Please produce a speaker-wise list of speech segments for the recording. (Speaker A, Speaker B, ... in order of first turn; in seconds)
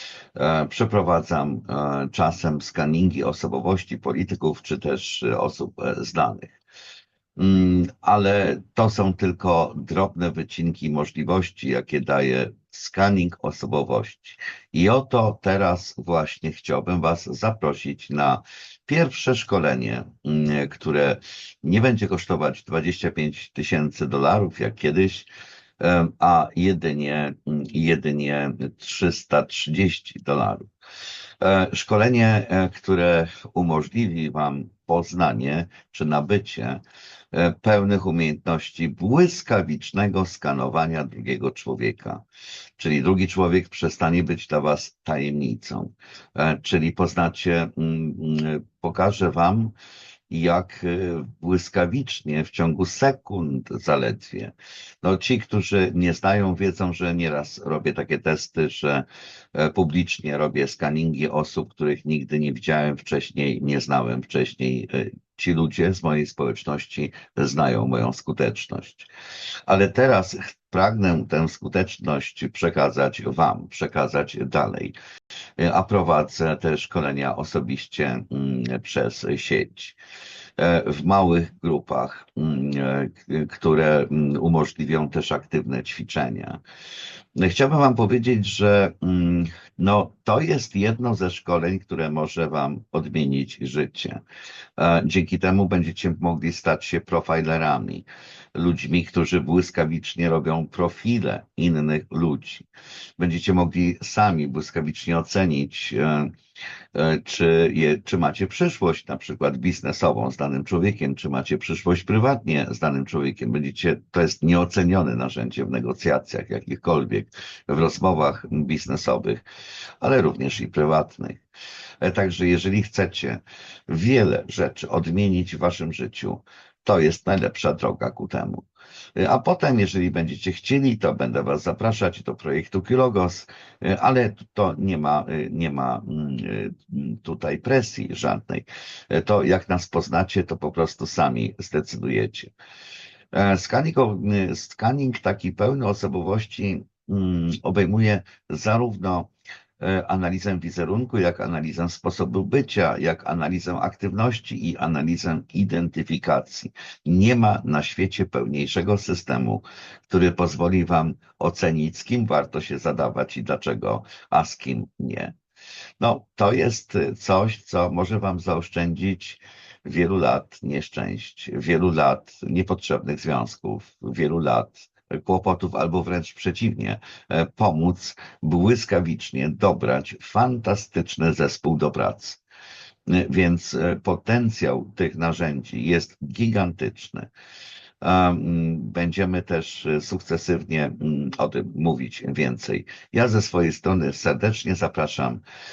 Speaker A: 0.4-6.6, 7.4-25.3, 25.8-30.7, 31.4-36.8, 37.3-42.2, 42.8-49.8, 50.3-69.1, 69.7-75.0, 75.6-80.0, 80.6-86.6, 87.4-94.2, 94.8-102.7, 103.2-106.3, 106.9-119.4, 120.0-121.4, 122.0-142.5, 143.3-165.4, 166.0-182.4, 183.1-187.3, 188.0-195.4